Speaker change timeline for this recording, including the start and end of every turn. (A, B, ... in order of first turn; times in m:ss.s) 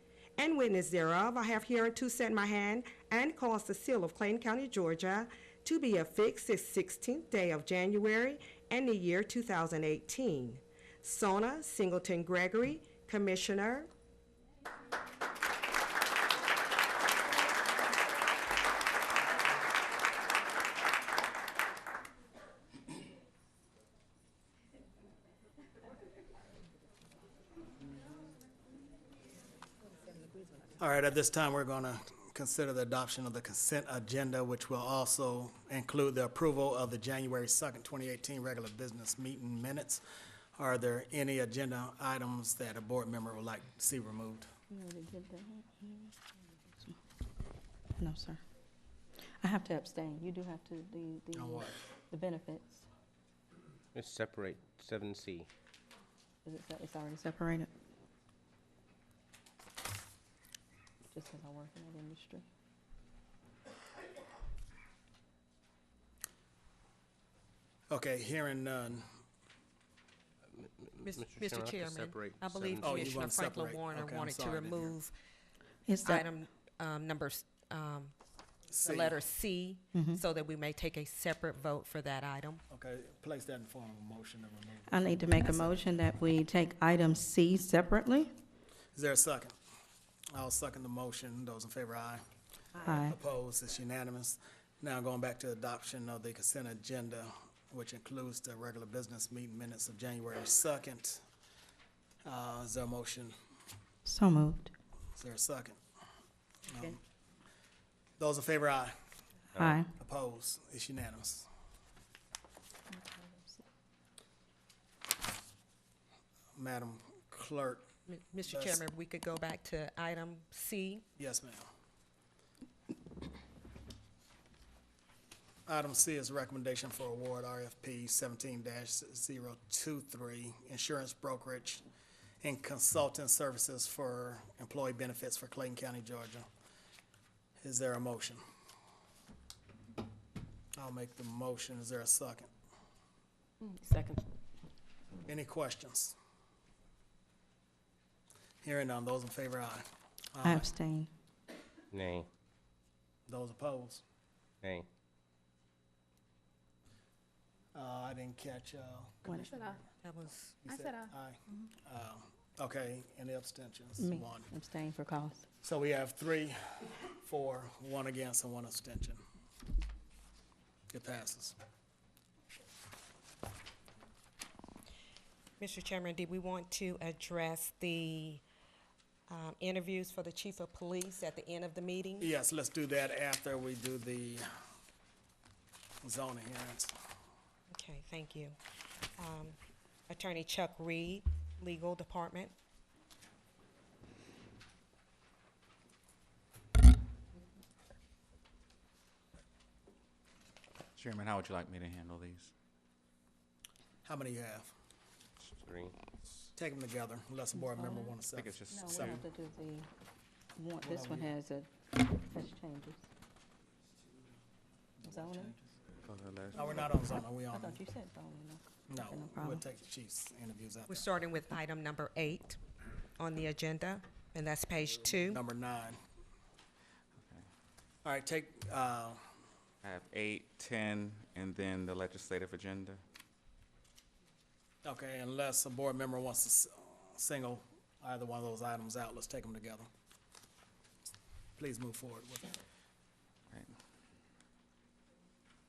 0:00.4-0:13.9 A
0:30.8-0:40.0 B
0:40.6-0:44.5 B
0:44.7-0:46.2 C
0:48.0-0:48.4 C
0:49.4-0:52.9 C
0:51.3-0:51.8 B
0:54.0-0:55.5 D
0:56.4-0:57.7 C
1:01.1-1:02.5 C
1:07.9-1:09.1 B
1:10.5-1:13.1 D
1:11.0-1:15.1 E
1:12.8-1:15.0 B
1:15.9-1:16.3 C
1:16.0-1:18.1 E
1:18.7-1:19.2 B
1:18.8-1:22.6 E
1:19.9-1:20.2 C
1:22.7-1:26.0 B
1:24.9-1:28.3 C
1:29.0-1:29.6 B
1:30.3-1:32.2 B
1:32.8-1:33.2 C
1:32.8-1:41.2 B
1:42.2-1:43.4 B
1:44.0-1:44.7 C
1:45.2-1:45.8 B
1:46.7-1:47.0 B
1:48.2-1:49.0 B
1:49.6-1:49.8 D
1:49.6-1:49.9 C
1:50.0-1:51.5 B
1:52.9-1:53.6 C
1:56.6-1:57.9 B
1:58.1-2:01.0 E
1:58.5-1:58.8 B
2:01.2-2:01.7 B
2:05.7-2:11.8 B
2:12.4-2:16.5 B
2:17.6-2:18.4 B
2:20.8-2:22.5 B
2:25.2-2:26.2 B
2:28.6-2:30.7 B
2:30.4-2:31.1 C
2:31.9-2:32.3 D
2:33.3-2:34.0 B
2:34.6-2:34.9 D
2:37.7-2:39.9 B
2:39.3-2:39.5 C
2:40.0-2:40.6 E
2:40.6-2:44.5 B
2:44.0-2:45.5 C
2:45.6-2:49.2 B
2:50.9-2:51.6 B
2:55.6-2:58.4 E
2:59.3-3:02.3 E
3:02.2-3:04.5 B
3:06.0-3:07.0 B
3:07.7-3:08.6 E
3:09.2-3:09.6 E
3:10.1-3:12.5 E
3:21.0-3:22.5 F
3:24.0-3:24.7 B
3:25.6-3:26.0 D
3:26.6-3:29.2 B
3:27.6-3:28.2 C
3:28.3-3:29.2 F
3:28.7-3:29.9 C
3:30.6-3:33.1 C
3:30.8-3:31.3 B
3:35.0-3:35.6 C
3:35.1-3:35.5 B
3:36.1-3:36.8 F
3:36.5-3:37.8 B
3:36.6-3:39.7 C
3:38.9-3:41.1 B
3:40.9-3:42.6 E
3:43.2-3:45.4 E
3:45.0-3:46.0 B
3:48.0-3:49.2 B
3:49.8-3:53.0 F
3:54.8-3:59.9 B
4:01.6-4:02.5 B